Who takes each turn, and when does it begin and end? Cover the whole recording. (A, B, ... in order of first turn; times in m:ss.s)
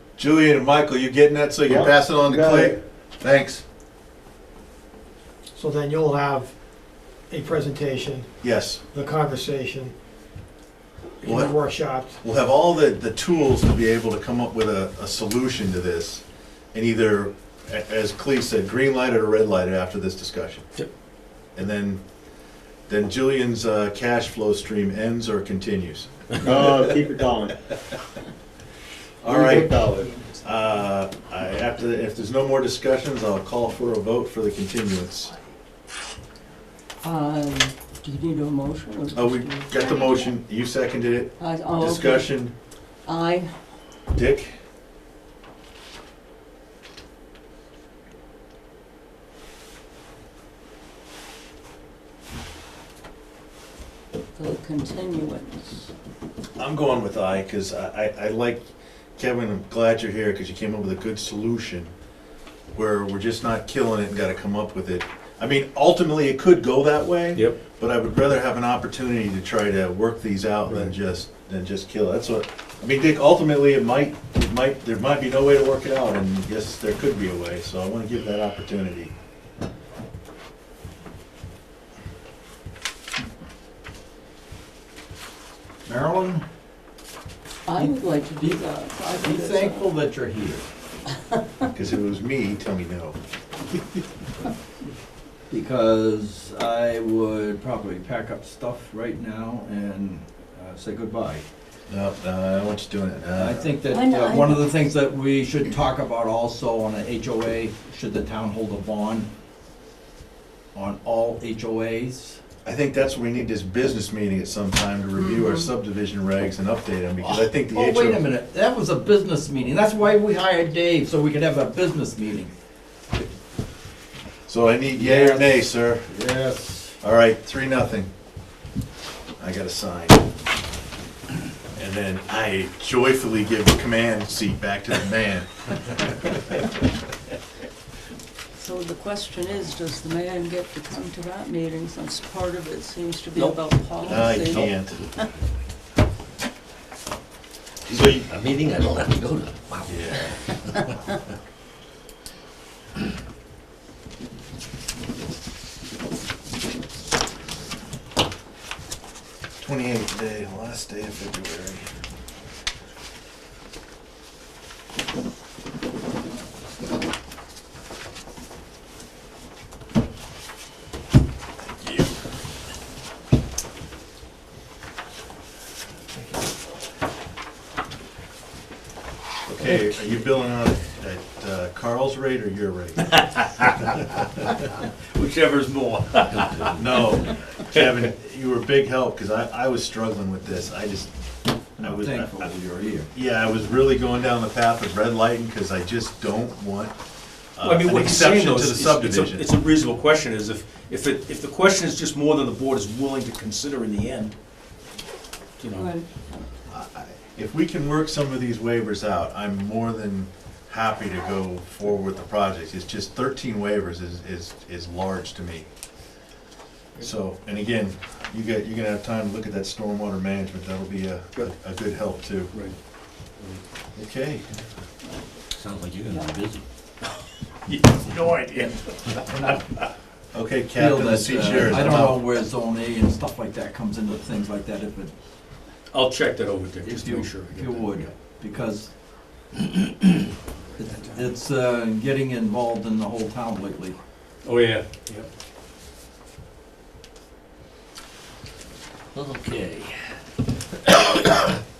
0:00.2-0:03.6 A
0:01.7-0:02.8 B
0:05.5-0:06.6 C
0:07.3-0:08.3 C
0:08.4-0:08.8 A
0:08.9-0:09.9 C
0:11.2-0:12.2 C
0:11.2-0:11.6 A
0:12.2-0:20.6 A
0:21.5-0:22.0 A
0:22.9-0:26.5 A
0:26.4-0:27.5 B
0:29.2-0:29.8 A
0:29.2-0:30.2 B
0:30.4-0:35.3 A
0:37.0-0:40.3 D
0:39.1-0:42.5 A
0:41.4-0:42.5 D
0:43.0-0:43.5 D
0:44.1-0:44.5 A
0:54.4-0:55.9 D
0:56.6-0:58.6 A
0:59.2-1:01.9 A
1:02.7-1:19.1 A
1:25.8-1:26.4 E
1:27.7-1:29.9 D
1:27.7-1:30.7 E
1:31.7-1:33.2 A
1:35.5-1:41.4 E
1:41.9-1:43.7 A
1:43.3-1:49.3 E
1:43.8-1:44.8 D
1:50.7-1:52.4 E
1:52.6-1:58.2 A
1:55.2-1:55.7 D
1:57.2-2:02.5 E
2:04.5-2:06.1 A
2:04.9-2:06.9 E
2:07.0-2:08.1 A
2:09.4-2:10.2 A
2:11.7-2:15.5 A
2:18.6-2:25.3 D
2:24.0-2:25.0 A
2:27.9-2:28.3 A
2:27.9-2:31.1 F
2:29.9-2:30.3 A
2:39.6-2:41.9 A
2:51.8-2:52.1 A
2:59.4-3:03.0 A
3:03.0-3:04.0 G
3:04.6-3:06.8 G
3:06.7-3:11.1 A
3:11.8-3:12.5 A
3:11.8-3:13.1 E
3:13.1-3:16.9 A
3:17.5-3:19.4 A
3:17.6-3:24.3 G
3:25.6-3:25.9 G
3:25.7-3:26.0 D
3:26.7-3:35.7 A
3:37.0-3:42.5 A
3:43.4-3:43.6 G
3:44.0-3:44.6 A
3:45.5-3:46.6 F
3:47.7-3:49.9 G
3:50.3-3:52.2 A
3:50.7-3:55.1 E
3:55.9-3:58.1 G
3:56.8-3:58.9 E
3:59.6-4:00.1 E
4:00.8-4:04.0 E
4:00.9-4:01.2 G
4:04.4-4:05.3 G
4:09.1-4:09.9 F
4:10.9-4:11.6 F